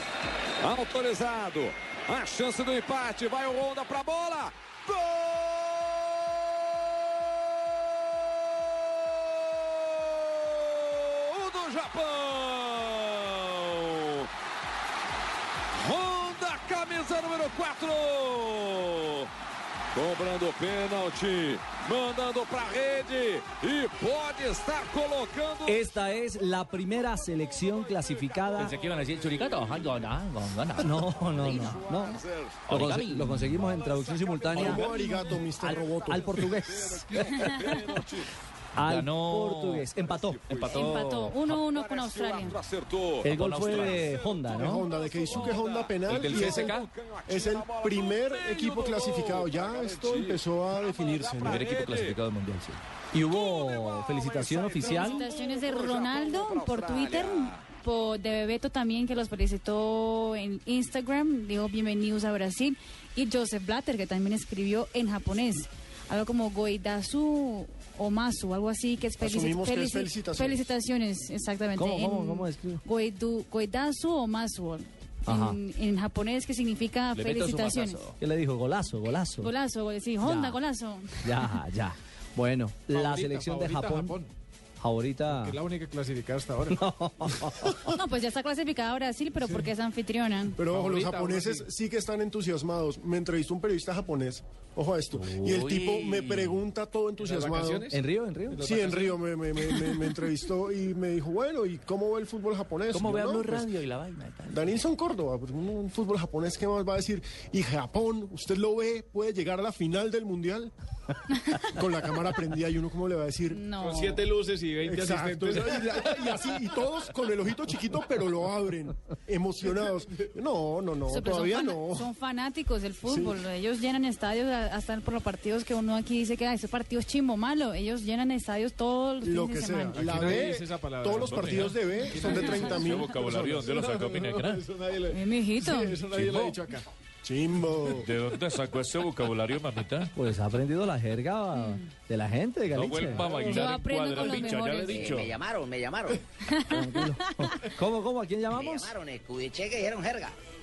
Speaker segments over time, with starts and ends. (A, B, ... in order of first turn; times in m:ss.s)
0:00.6-0:05.9 A
0:10.1-0:14.3 A
0:15.8-0:19.3 A
0:19.9-0:30.1 A
0:25.7-0:28.8 B
0:28.6-0:30.9 C
0:30.8-0:34.9 B
0:30.8-0:38.3 A
0:31.4-0:31.8 D
0:32.7-0:33.2 C
0:34.5-0:36.0 E
0:35.6-0:37.8 B
0:38.8-0:41.3 B
0:38.8-0:39.1 F
0:39.9-0:52.2 A
0:40.7-0:42.6 G
0:43.2-0:44.9 B
0:43.4-0:44.0 C
0:44.5-0:51.7 E
0:46.2-0:46.6 C
0:51.5-0:52.8 C
0:53.1-0:55.3 B
0:53.1-0:57.6 A
0:54.9-1:18.1 G
1:09.2-1:10.6 E
1:11.8-1:12.8 B
1:15.3-1:15.6 B
1:17.3-1:18.0 C
1:18.2-1:19.5 B
1:19.4-1:21.4 G
1:20.2-1:20.6 B
1:21.2-1:24.2 B
1:22.9-1:24.3 H
1:24.8-1:25.6 B
1:25.3-1:26.8 H
1:26.7-1:27.9 B
1:27.9-1:30.6 G
1:29.4-1:29.7 H
1:30.6-1:37.9 E
1:30.7-1:31.7 H
1:35.2-1:35.7 B
1:37.2-1:38.0 H
1:37.9-1:38.7 B
1:38.5-1:39.2 H
1:38.6-1:43.7 E
1:42.9-1:43.4 B
1:44.0-1:44.4 C
1:44.5-1:50.7 E
1:51.6-1:53.8 E
1:53.5-1:54.3 G
1:53.8-1:56.6 H
1:54.8-2:02.1 E
2:01.1-2:10.1 G
2:03.0-2:03.5 E
2:09.2-2:13.7 E
2:09.9-2:16.9 H
2:10.1-2:10.5 F
2:11.1-2:11.8 F
2:12.2-2:13.2 G
2:12.5-2:14.7 F
2:15.1-2:16.0 G
2:16.0-2:16.5 F
2:17.2-2:18.1 E
2:18.0-2:20.1 F
2:20.2-2:23.3 B
2:21.6-2:21.9 G
2:22.7-2:25.4 F
2:23.1-2:25.1 G
2:24.8-2:26.2 D
2:26.4-2:27.6 G
2:26.7-2:28.9 B
2:28.5-2:30.4 D